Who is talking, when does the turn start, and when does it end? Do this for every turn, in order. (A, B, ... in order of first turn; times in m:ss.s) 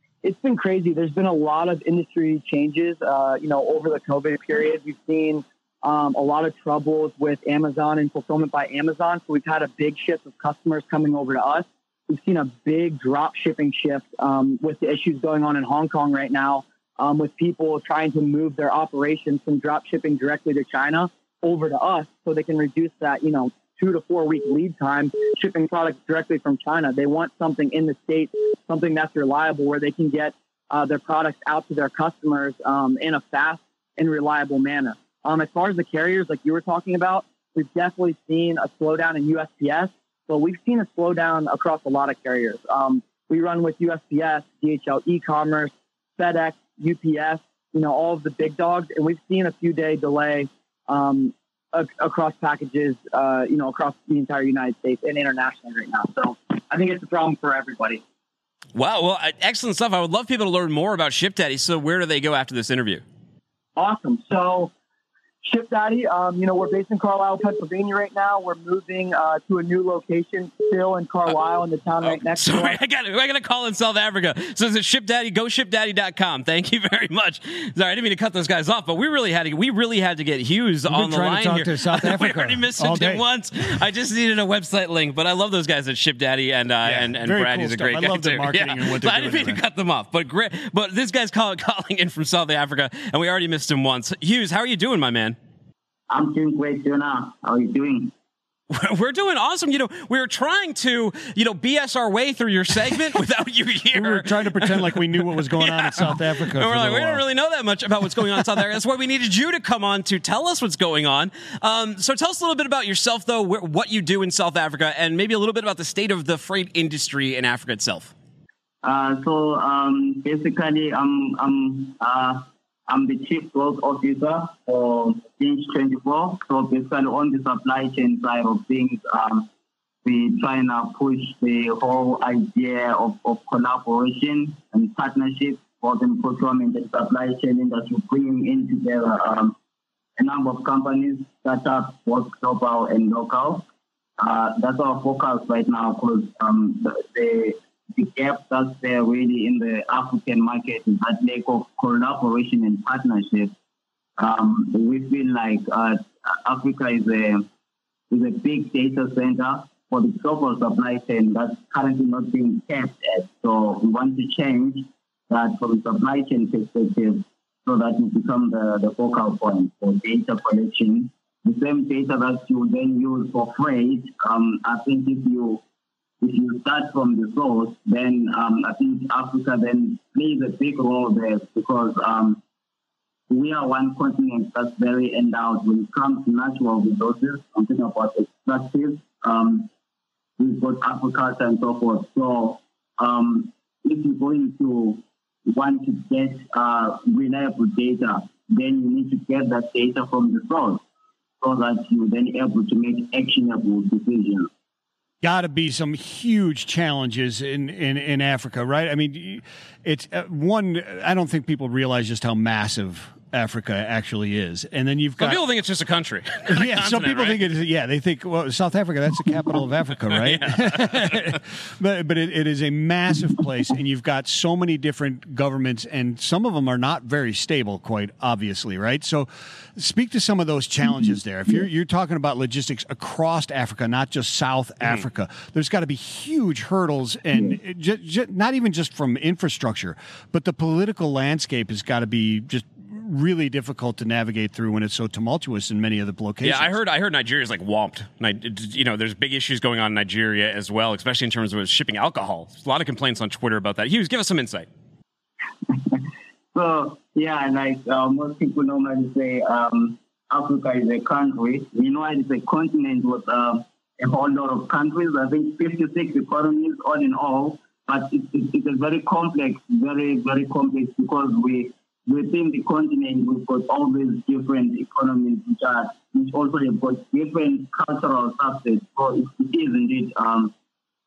0:00.2-0:58.0 A
0:58.8-1:03.0 B
1:03.8-1:04.7 A
1:05.4-1:12.8 A
1:12.0-1:35.4 B
1:20.9-1:23.2 C
1:26.8-1:29.6 C
1:36.1-1:38.1 D
1:38.7-1:58.1 B
1:43.9-1:47.2 C
1:48.2-1:48.4 C
1:58.8-2:09.5 D
2:10.0-2:19.5 D
2:20.2-2:23.7 D
2:24.2-2:33.5 D
2:34.2-2:37.5 D
2:38.1-2:55.6 D
2:56.2-3:02.4 D
3:03.3-3:09.7 D
3:10.4-3:20.8 D
3:21.4-3:24.5 D
3:25.2-3:35.4 C
3:35.2-3:37.5 B
3:36.5-4:06.8 C
3:40.1-3:41.4 B
3:50.9-3:51.7 D
3:57.3-3:57.6 D
4:06.4-4:14.7 B
4:15.7-4:16.0 D
4:16.5-4:40.5 D